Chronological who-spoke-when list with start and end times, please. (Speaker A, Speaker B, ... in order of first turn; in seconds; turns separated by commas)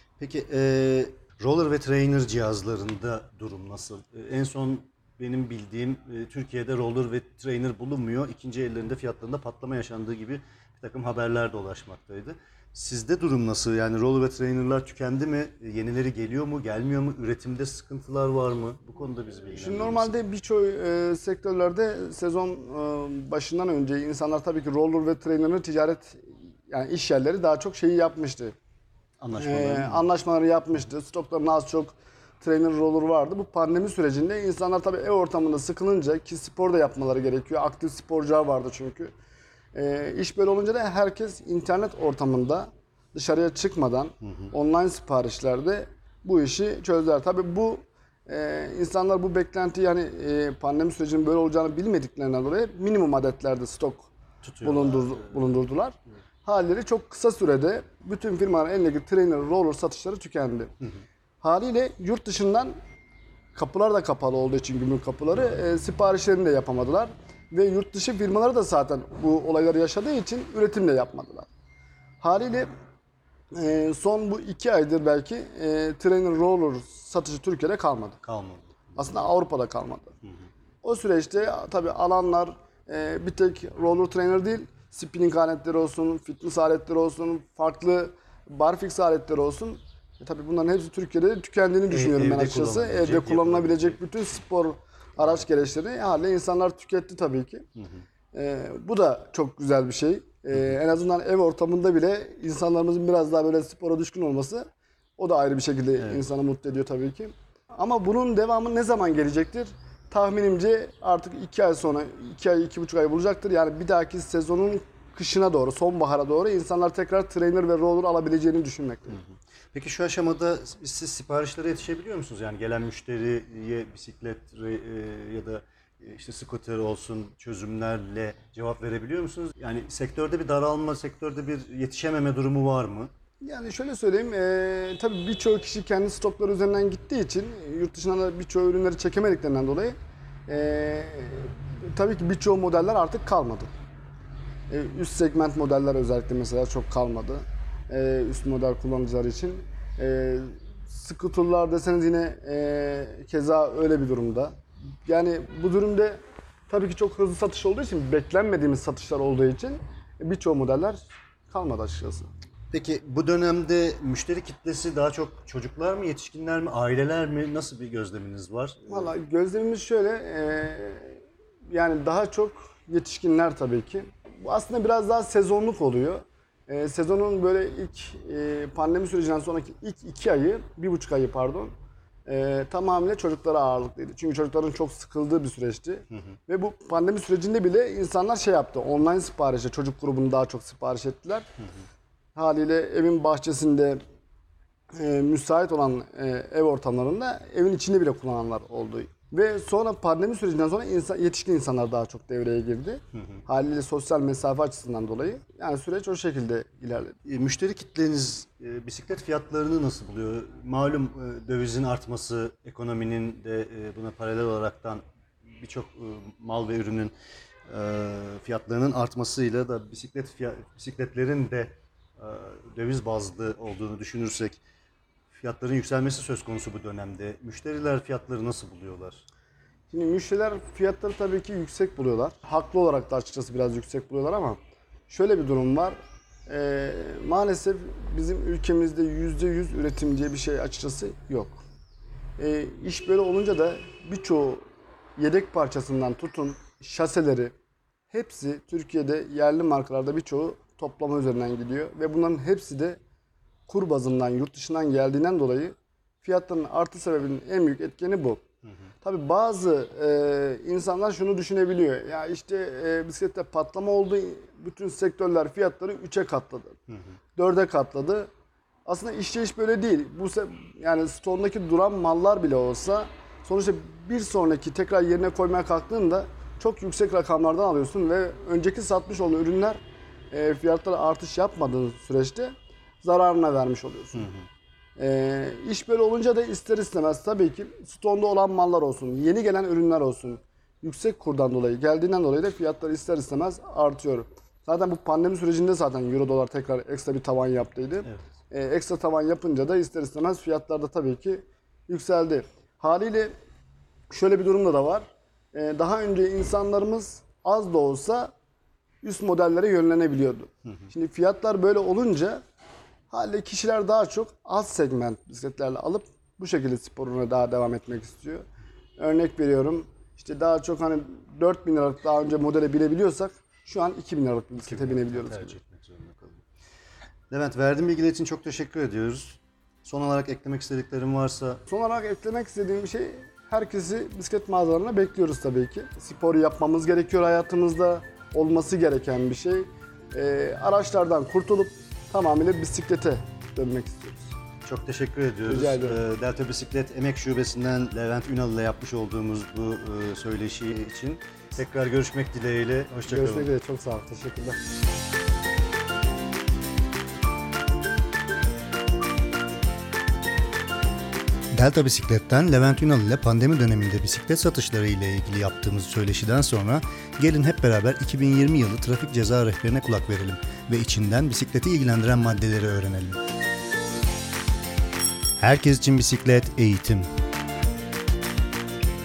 Speaker A: 0.2-20.1, Speaker B: 19.5-28.5, Speaker A: 29.2-30.1, Speaker B: 29.3-39.1, Speaker B: 39.7-54.1, Speaker A: 44.2-44.5, Speaker A: 54.4-55.5, Speaker B: 54.6-55.9, Speaker B: 56.5-60.7, Speaker B: 61.4-62.8, Speaker B: 63.5-71.5, Speaker B: 72.2-72.7, Speaker B: 73.5-78.2, Speaker A: 78.2-78.7, Speaker B: 79.0-80.1, Speaker B: 80.8-97.6, Speaker A: 91.9-94.0, Speaker A: 97.8-98.0, Speaker B: 98.3-104.6, Speaker B: 105.2-119.2, Speaker A: 106.0-106.2, Speaker A: 119.1-133.1, Speaker B: 133.4-139.9, Speaker B: 140.5-143.7, Speaker B: 144.7-154.5, Speaker B: 155.1-156.2, Speaker B: 156.7-162.3, Speaker A: 162.7-169.1, Speaker B: 168.9-181.7, Speaker B: 182.2-191.4, Speaker B: 192.3-194.0, Speaker B: 194.9-207.2, Speaker A: 207.2-217.1, Speaker A: 217.7-224.6, Speaker A: 225.3-229.2, Speaker B: 229.9-236.0, Speaker B: 236.5-241.6, Speaker B: 242.4-244.6, Speaker B: 245.2-247.5, Speaker B: 248.1-253.0, Speaker B: 253.7-258.4, Speaker B: 259.0-266.7, Speaker B: 267.4-268.3, Speaker B: 268.9-279.8, Speaker B: 280.3-284.3, Speaker B: 285.0-303.3, Speaker B: 304.1-308.3, Speaker B: 309.0-312.4, Speaker B: 313.1-318.4, Speaker B: 319.0-325.6, Speaker A: 324.6-326.4, Speaker A: 327.3-331.6, Speaker B: 331.7-344.3, Speaker A: 344.6-353.5, Speaker B: 345.4-346.0, Speaker B: 353.1-354.6, Speaker A: 361.5-373.2, Speaker A: 375.4-377.1